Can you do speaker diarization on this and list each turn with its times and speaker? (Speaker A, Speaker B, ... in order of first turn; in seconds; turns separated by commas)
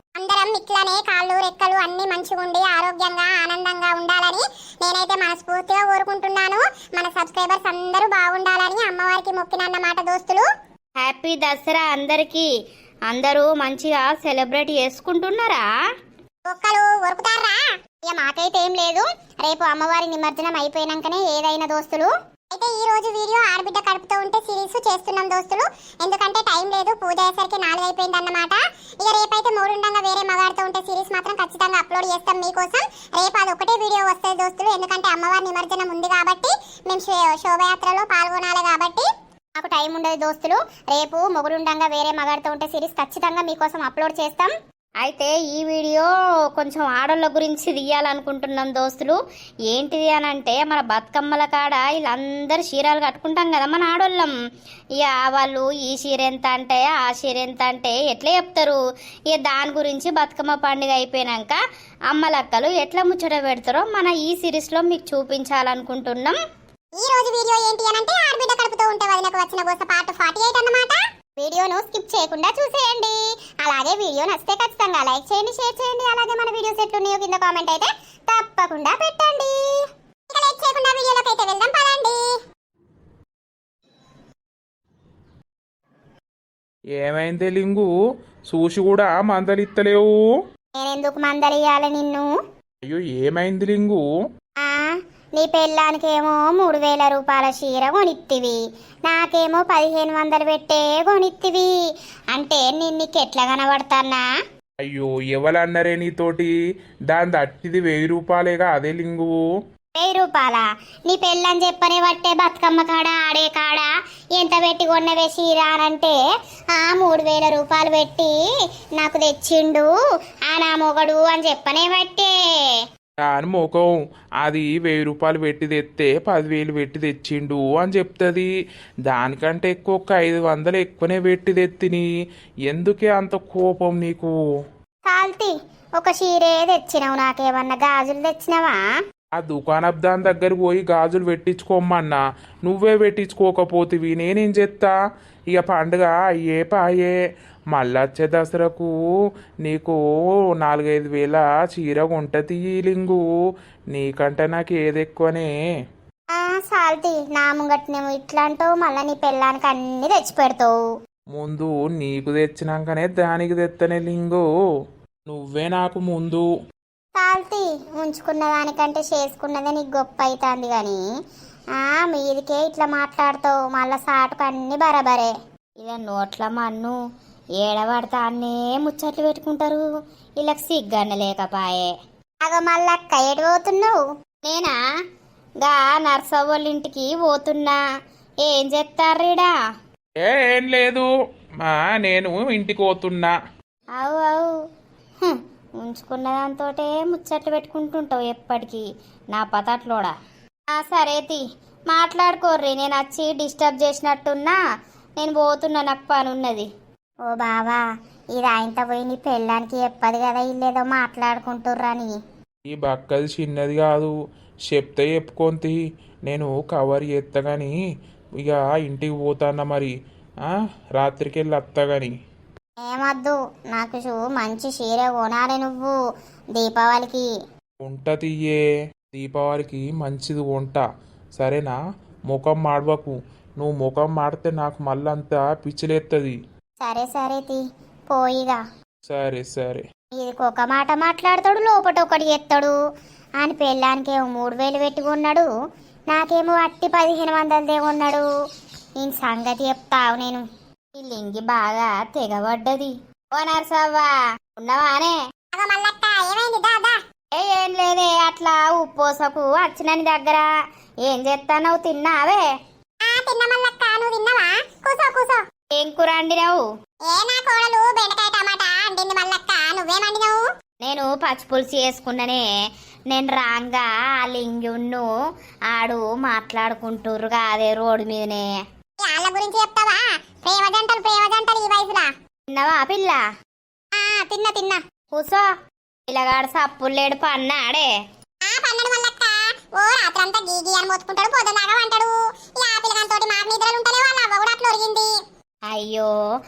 Speaker A: 0.2-10.4, Speaker B: 11.0-12.5, Speaker B: 13.1-15.7, Speaker A: 16.5-44.5, Speaker B: 45.0-54.3, Speaker B: 55.0-58.8, Speaker B: 59.3-61.6, Speaker B: 62.1-66.4, Speaker A: 67.0-79.6, Speaker A: 80.3-82.2, Speaker C: 87.0-87.9, Speaker C: 88.5-90.1, Speaker A: 90.8-92.3, Speaker C: 92.8-94.0, Speaker A: 94.6-101.7, Speaker A: 102.3-104.2, Speaker C: 104.8-106.5, Speaker C: 107.1-109.4, Speaker A: 110.0-116.2, Speaker A: 116.7-118.3, Speaker A: 119.0-119.9, Speaker A: 120.5-122.3, Speaker C: 123.2-128.5, Speaker C: 129.1-132.1, Speaker C: 132.7-134.3, Speaker A: 135.1-138.8, Speaker C: 139.4-144.9, Speaker C: 145.5-147.2, Speaker C: 147.7-148.9, Speaker C: 149.7-150.0, Speaker C: 150.6-153.2, Speaker C: 153.9-155.5, Speaker A: 156.3-160.8, Speaker C: 161.4-164.4, Speaker C: 165.3-166.5, Speaker A: 167.2-171.0, Speaker A: 171.8-175.3, Speaker B: 175.8-177.0, Speaker B: 177.6-179.8, Speaker B: 180.4-181.9, Speaker A: 182.4-184.0, Speaker B: 184.4-184.8, Speaker B: 185.6-187.8, Speaker B: 188.4-189.5, Speaker C: 190.2-191.1, Speaker C: 191.6-193.3, Speaker B: 194.0-194.5, Speaker B: 195.2-200.1, Speaker B: 200.7-204.6, Speaker B: 205.2-206.7, Speaker A: 207.3-207.8, Speaker A: 208.3-212.2, Speaker C: 212.7-214.1, Speaker C: 214.7-217.7, Speaker C: 218.4-219.9, Speaker C: 220.5-222.1, Speaker A: 222.9-226.0, Speaker A: 226.6-227.3, Speaker C: 227.9-228.6, Speaker C: 229.1-230.8, Speaker C: 231.4-231.8, Speaker C: 232.3-236.4, Speaker A: 236.8-238.6, Speaker C: 239.1-239.8, Speaker A: 240.2-242.8, Speaker A: 243.4-245.5, Speaker A: 246.1-248.3, Speaker A: 249.0-250.4, Speaker B: 251.0-255.2, Speaker A: 255.5-257.0, Speaker B: 257.3-260.5, Speaker B: 261.1-262.5, Speaker A: 263.1-265.4, Speaker B: 265.7-266.7, Speaker A: 267.1-270.4, Speaker B: 270.8-272.4, Speaker B: 273.1-275.1, Speaker B: 275.7-278.5, Speaker A: 279.0-282.1, Speaker B: 282.5-283.2, Speaker A: 283.9-284.8, Speaker B: 285.1-285.5, Speaker B: 286.1-287.9, Speaker A: 288.4-295.1, Speaker B: 295.7-296.1